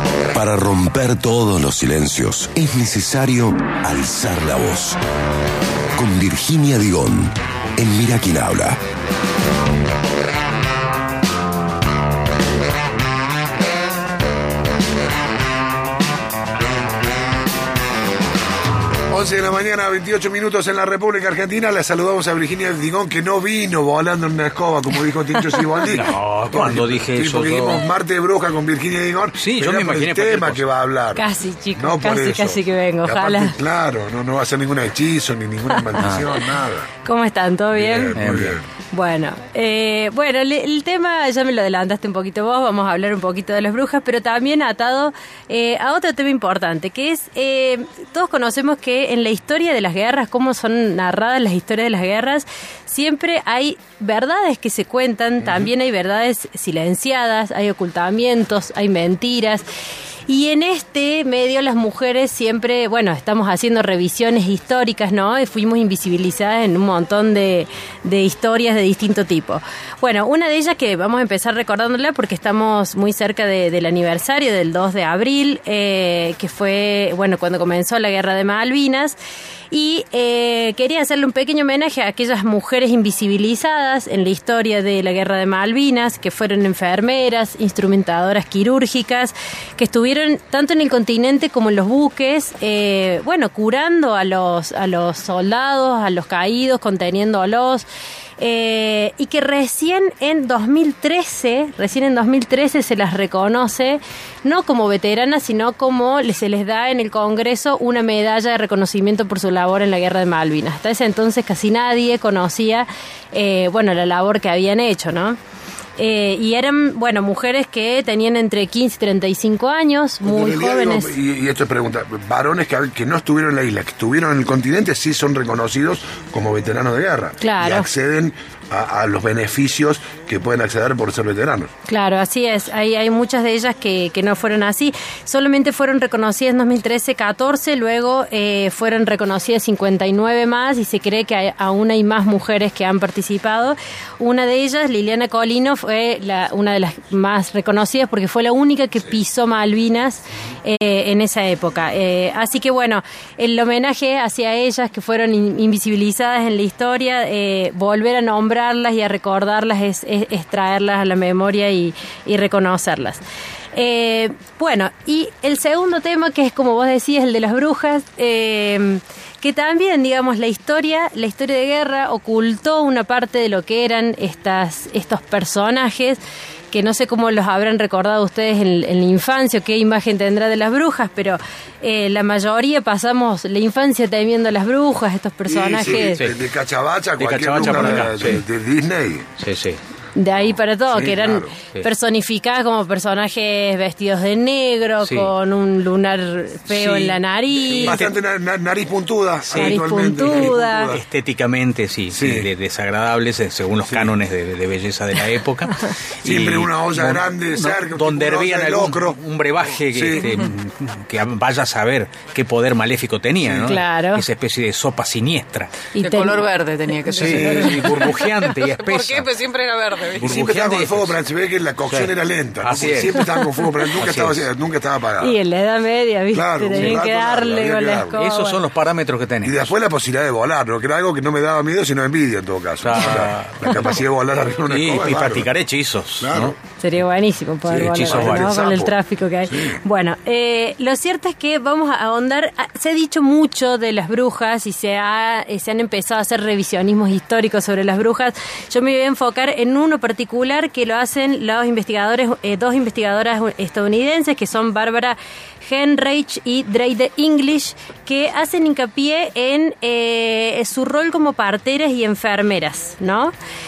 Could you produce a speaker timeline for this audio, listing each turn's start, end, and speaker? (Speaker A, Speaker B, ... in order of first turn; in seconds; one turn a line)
Speaker A: 0.2-5.0
Speaker A: 6.0-8.8
Speaker B: 19.1-36.9
Speaker C: 25.9-27.9
Speaker C: 29.4-30.6
Speaker D: 31.1-33.6
Speaker D: 35.7-36.2
Speaker D: 37.0-38.2
Speaker B: 37.7-38.7
Speaker C: 38.1-38.6
Speaker D: 38.9-59.6
Speaker D: 60.3-79.2
Speaker D: 79.7-97.9
Speaker D: 98.4-115.4
Speaker D: 116.0-121.2
Speaker B: 120.2-131.7
Speaker D: 127.4-127.9
Speaker D: 131.9-163.2
Speaker D: 163.7-176.2
Speaker D: 176.7-186.2
Speaker B: 185.5-189.3
Speaker C: 185.9-186.4
Speaker C: 187.2-188.4
Speaker C: 189.4-189.8
Speaker D: 190.2-198.0
Speaker B: 190.9-191.6
Speaker C: 195.0-195.3
Speaker C: 196.7-198.1
Speaker B: 197.7-201.1
Speaker C: 199.5-215.8
Speaker D: 199.6-201.0
Speaker B: 202.1-202.5
Speaker B: 203.9-204.1
Speaker B: 206.2-209.2
Speaker B: 209.9-210.3
Speaker B: 213.5-213.7
Speaker D: 213.6-214.2
Speaker D: 216.0-216.5
Speaker E: 216.0-220.4
Speaker C: 217.1-219.3
Speaker C: 220.1-221.2
Speaker B: 220.2-225.4
Speaker C: 221.9-223.3
Speaker C: 224.0-224.4
Speaker D: 225.2-228.6
Speaker B: 226.3-228.2
Speaker C: 226.8-227.0
Speaker C: 228.1-229.7
Speaker B: 229.4-235.5
Speaker C: 232.8-234.0
Speaker C: 234.7-236.6
Speaker B: 236.2-236.6
Speaker D: 236.8-263.3
Speaker B: 237.7-239.8
Speaker C: 237.8-238.5